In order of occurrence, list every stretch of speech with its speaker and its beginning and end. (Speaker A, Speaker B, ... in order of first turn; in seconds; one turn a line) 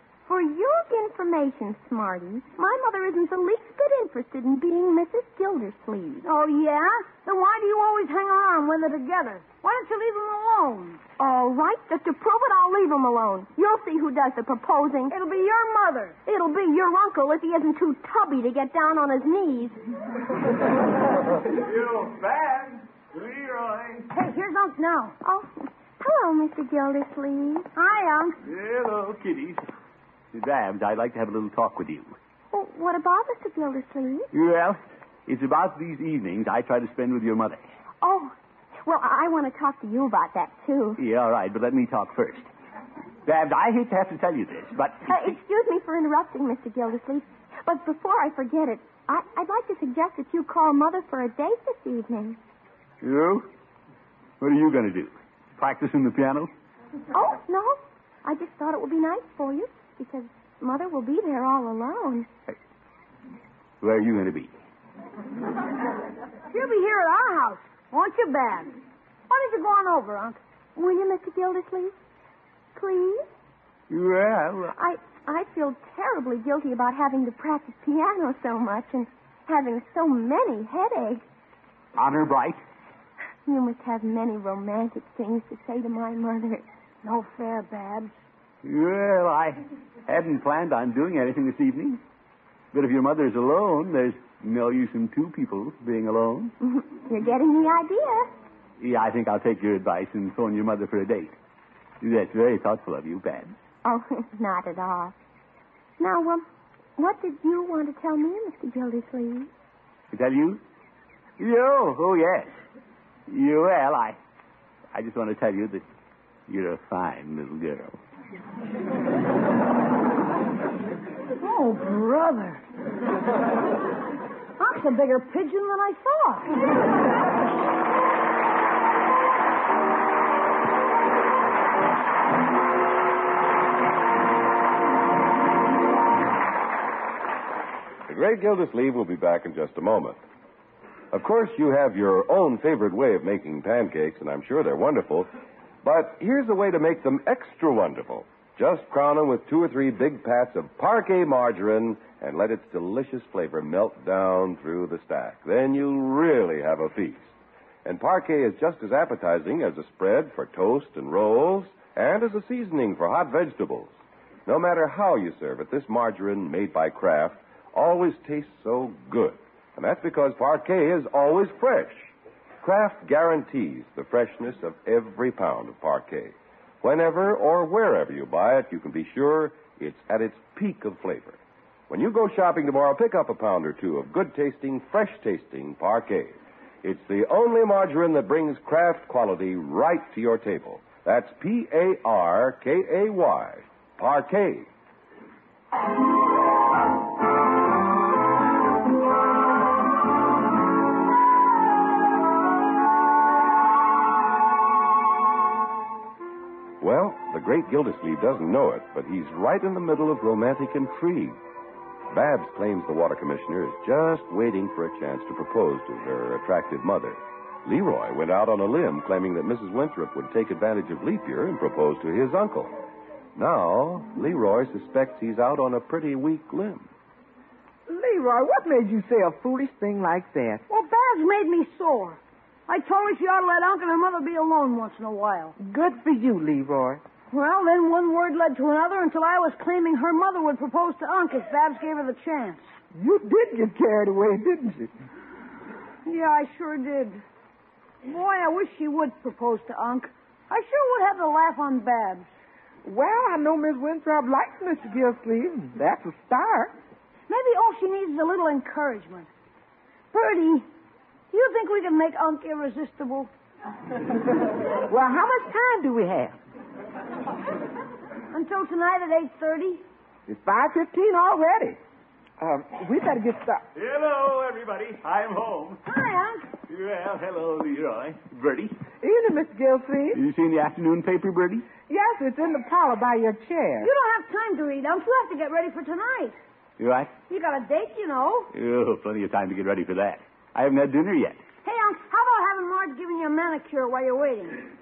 Speaker A: 0.3-6.3
Speaker B: 6.2-11.0
Speaker A: 11.2-15.2
Speaker B: 15.1-16.2
Speaker A: 16.3-19.8
Speaker C: 21.5-24.1
Speaker B: 24.1-25.1
Speaker A: 25.2-27.7
Speaker B: 27.8-28.4
Speaker C: 28.4-29.6
Speaker C: 30.3-32.1
Speaker A: 32.5-34.3
Speaker C: 34.3-37.6
Speaker A: 38.0-41.0
Speaker C: 41.0-42.5
Speaker C: 43.3-45.4
Speaker A: 45.1-52.4
Speaker C: 53.0-53.5
Speaker C: 54.4-56.5
Speaker A: 57.1-62.3
Speaker C: 63.8-64.5
Speaker B: 66.5-68.7
Speaker B: 69.3-70.4
Speaker A: 70.8-71.9
Speaker A: 72.8-73.3
Speaker C: 73.9-74.8
Speaker A: 74.8-81.2
Speaker C: 82.0-82.6
Speaker A: 83.5-86.7
Speaker B: 87.0-88.1
Speaker C: 88.6-92.0
Speaker C: 92.7-96.5
Speaker A: 96.6-98.3
Speaker C: 98.8-101.4
Speaker C: 102.0-103.5
Speaker A: 103.8-105.1
Speaker A: 106.0-106.5
Speaker A: 107.0-109.5
Speaker C: 110.1-110.6
Speaker C: 111.4-112.5
Speaker C: 113.3-114.2
Speaker C: 114.9-115.8
Speaker C: 116.5-118.0
Speaker B: 121.4-122.6
Speaker B: 124.6-126.5
Speaker D: 138.1-140.2
Speaker D: 141.1-145.3
Speaker D: 145.8-157.3
Speaker D: 157.8-163.9
Speaker D: 164.5-172.1
Speaker D: 172.6-194.7
Speaker D: 206.8-211.3
Speaker D: 212.1-222.7
Speaker D: 223.3-226.9
Speaker E: 227.9-230.6
Speaker B: 230.7-235.6
Speaker E: 235.6-237.0
Speaker B: 237.3-242.7
Speaker E: 242.9-244.9
Speaker B: 246.1-247.2
Speaker B: 248.0-252.3
Speaker E: 252.8-256.8
Speaker B: 257.3-259.3
Speaker B: 260.1-260.7
Speaker B: 261.3-263.3
Speaker E: 264.9-266.4
Speaker B: 268.3-269.9
Speaker E: 270.3-271.8
Speaker E: 272.4-273.6
Speaker C: 273.8-275.8
Speaker B: 275.9-276.5
Speaker C: 276.7-278.8
Speaker E: 279.0-280.2
Speaker C: 280.1-281.7
Speaker E: 281.9-283.9
Speaker B: 283.8-286.4
Speaker C: 286.8-287.1
Speaker B: 287.3-288.5
Speaker C: 288.5-291.4
Speaker B: 291.6-294.7